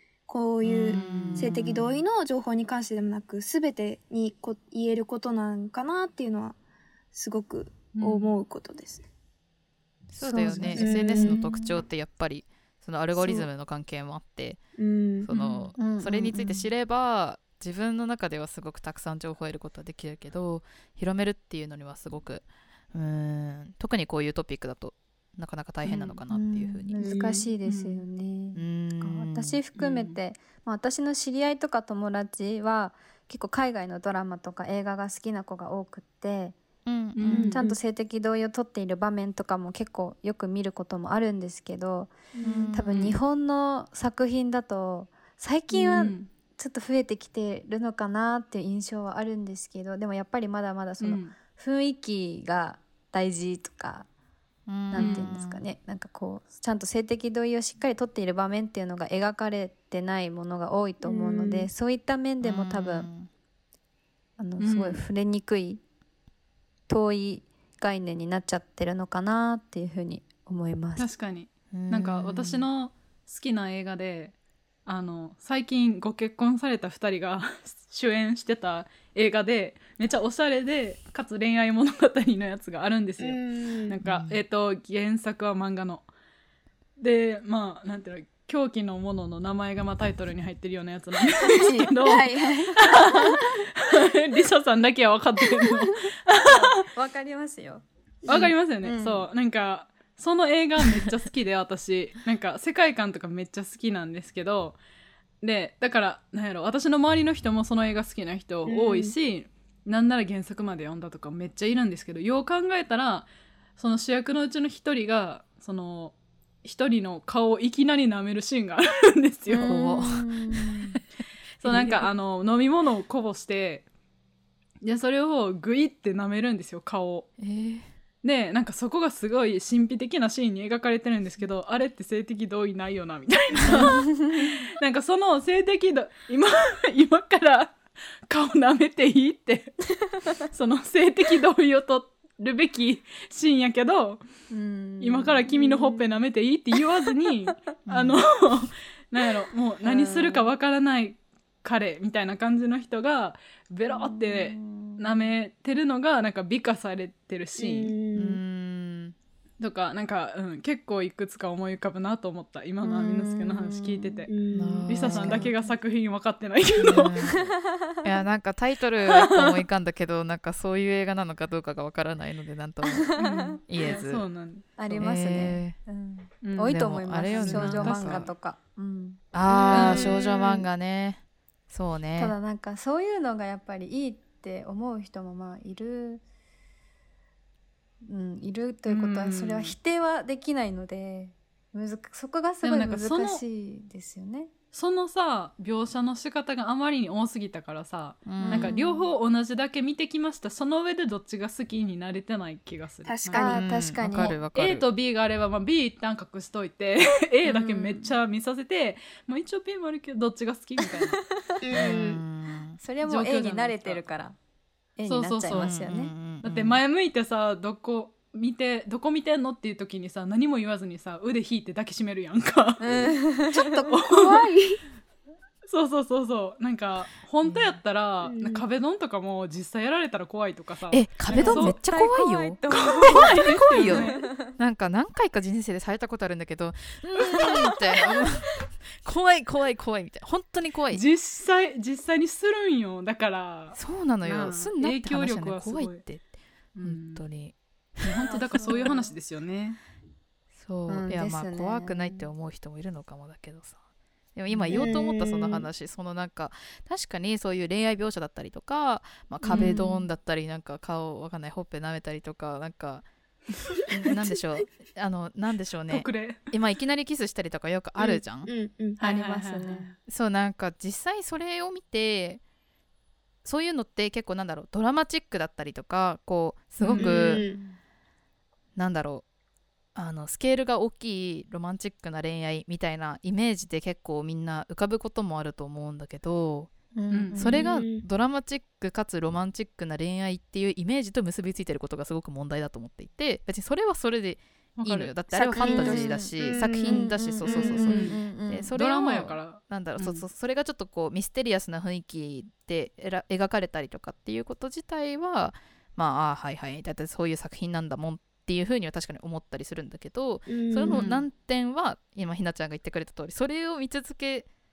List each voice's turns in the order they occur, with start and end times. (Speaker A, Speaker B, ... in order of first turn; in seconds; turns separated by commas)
Speaker A: 0.3-6.6, Speaker B: 0.7-1.6, Speaker C: 0.7-1.6, Speaker A: 7.1-9.0, Speaker C: 7.9-8.4, Speaker B: 10.1-14.6, Speaker D: 10.1-11.7, Speaker A: 10.7-11.4, Speaker A: 13.1-13.5, Speaker A: 14.8-15.3, Speaker B: 15.2-27.0, Speaker C: 15.3-15.7, Speaker D: 15.8-16.7, Speaker C: 25.8-26.2, Speaker D: 26.3-36.6, Speaker A: 27.0-27.5, Speaker C: 27.6-28.0, Speaker B: 28.5-29.6, Speaker C: 29.8-30.2, Speaker B: 36.9-37.5, Speaker C: 37.1-37.6, Speaker A: 37.3-37.8, Speaker D: 37.3-42.1, Speaker A: 42.3-42.7, Speaker B: 42.4-43.1, Speaker D: 42.7-54.1, Speaker C: 42.9-43.2, Speaker C: 45.7-46.3, Speaker C: 51.0-51.3, Speaker B: 54.7-55.6, Speaker D: 54.9-63.1, Speaker C: 54.9-55.2, Speaker A: 61.0-61.7, Speaker B: 62.4-63.3, Speaker D: 64.4-65.8, Speaker C: 64.6-65.0, Speaker D: 66.9-71.1, Speaker C: 71.0-74.3, Speaker B: 71.7-72.7, Speaker C: 74.8-86.1, Speaker A: 83.2-84.0, Speaker B: 84.0-84.4, Speaker C: 87.0-96.7, Speaker A: 91.4-93.4, Speaker D: 96.5-99.3, Speaker A: 98.2-98.5, Speaker C: 98.3-104.8, Speaker C: 105.4-119.9, Speaker A: 108.7-109.1, Speaker D: 119.5-121.0, Speaker B: 119.6-120.2, Speaker C: 120.5-120.8, Speaker C: 121.6-123.9, Speaker B: 121.7-122.0, Speaker C: 124.8-127.3, Speaker B: 127.4-127.9, Speaker C: 128.2-144.2, Speaker D: 133.7-134.5, Speaker D: 144.5-146.0, Speaker C: 145.0-157.9, Speaker B: 147.9-148.2, Speaker D: 149.8-150.5, Speaker D: 153.9-155.1, Speaker A: 157.6-158.4, Speaker B: 158.1-159.1, Speaker C: 159.6-164.3, Speaker D: 162.8-164.3, Speaker A: 164.3-164.9, Speaker B: 164.5-165.5, Speaker C: 164.9-167.2, Speaker D: 165.0-165.7, Speaker B: 166.8-173.1, Speaker C: 169.1-169.5, Speaker D: 172.8-173.6, Speaker C: 173.2-174.8, Speaker B: 173.7-174.2, Speaker D: 174.8-180.6, Speaker B: 174.9-175.8, Speaker C: 176.4-178.3, Speaker B: 176.7-178.3, Speaker B: 179.3-182.3, Speaker C: 179.7-180.3, Speaker D: 182.2-186.2, Speaker D: 188.0-194.5, Speaker C: 188.8-189.7, Speaker C: 192.6-193.4, Speaker C: 194.7-211.2, Speaker B: 198.2-198.7, Speaker D: 198.4-199.1, Speaker A: 203.0-203.7, Speaker D: 203.3-204.4, Speaker B: 203.5-204.8, Speaker D: 207.5-208.0, Speaker A: 211.6-212.2, Speaker B: 211.7-212.8, Speaker D: 212.8-214.4, Speaker C: 213.0-214.0, Speaker D: 215.0-216.1, Speaker C: 215.1-215.8, Speaker B: 215.5-216.8, Speaker C: 216.4-223.1, Speaker D: 222.8-223.9, Speaker A: 223.6-224.8, Speaker C: 223.9-224.4, Speaker C: 225.7-231.8, Speaker B: 227.4-227.8, Speaker A: 228.2-228.6, Speaker B: 230.9-241.0, Speaker D: 231.3-234.5, Speaker C: 232.7-234.2, Speaker C: 240.9-246.0, Speaker B: 243.7-246.2, Speaker C: 246.8-247.2, Speaker B: 246.8-248.3, Speaker C: 248.0-249.8, Speaker D: 248.5-248.9, Speaker B: 250.5-253.8, Speaker D: 250.9-252.3, Speaker B: 254.3-263.1, Speaker C: 254.5-254.8, Speaker A: 254.7-255.7, Speaker D: 259.4-260.0, Speaker C: 259.5-259.8, Speaker B: 263.9-268.5, Speaker C: 265.9-266.5, Speaker A: 268.0-269.0, Speaker D: 269.0-269.9, Speaker C: 269.0-269.9, Speaker B: 270.1-272.4, Speaker B: 273.4-277.4, Speaker C: 276.8-277.1, Speaker A: 276.9-277.6, Speaker D: 277.4-277.8, Speaker B: 278.7-279.2, Speaker B: 279.9-286.7, Speaker D: 286.9-287.6, Speaker C: 287.1-287.5, Speaker B: 287.3-314.5, Speaker A: 287.5-288.0, Speaker C: 294.8-295.1, Speaker A: 295.3-297.9, Speaker D: 295.6-298.7, Speaker C: 297.8-298.2, Speaker C: 298.7-300.2, Speaker A: 310.5-311.1, Speaker C: 310.8-311.2